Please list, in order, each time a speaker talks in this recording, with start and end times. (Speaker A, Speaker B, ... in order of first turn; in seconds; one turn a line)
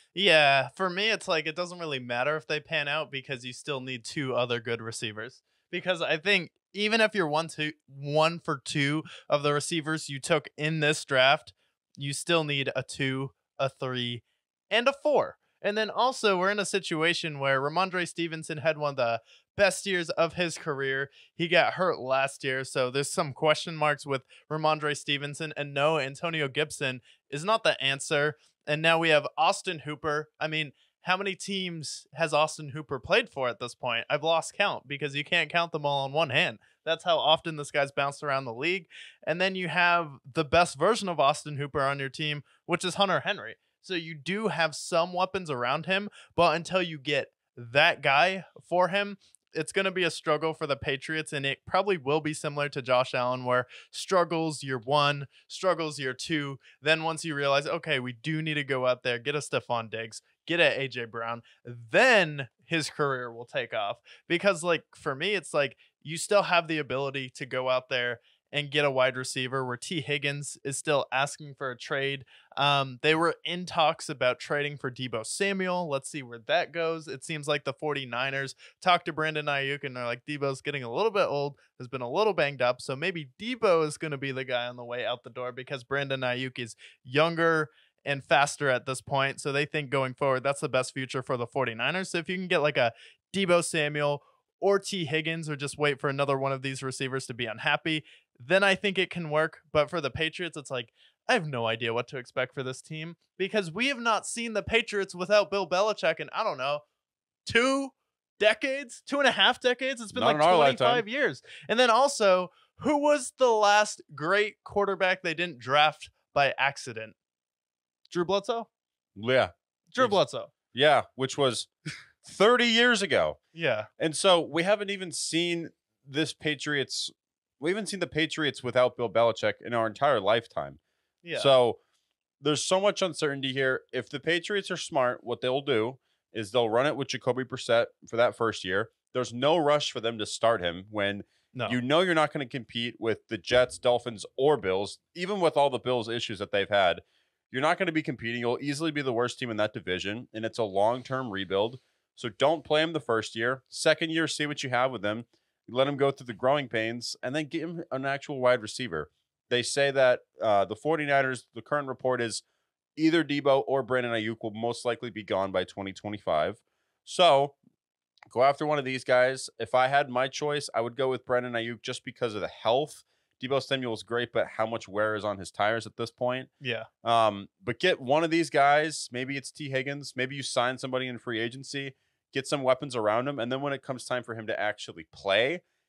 Speaker A: 0.1-106.8
Speaker A: 107.5-117.1
Speaker B: 110.1-111.0
Speaker A: 118.1-118.7
Speaker B: 119.2-120.2
Speaker A: 119.9-120.5
Speaker B: 120.7-121.7
Speaker B: 122.2-123.4
Speaker A: 123.5-123.9
Speaker B: 124.0-130.8
Speaker A: 131.2-131.5
Speaker B: 131.3-131.8
Speaker B: 132.4-162.4
Speaker A: 141.5-141.8
Speaker B: 163.0-167.6
Speaker B: 168.3-176.5
Speaker A: 176.6-176.9
Speaker B: 177.0-185.6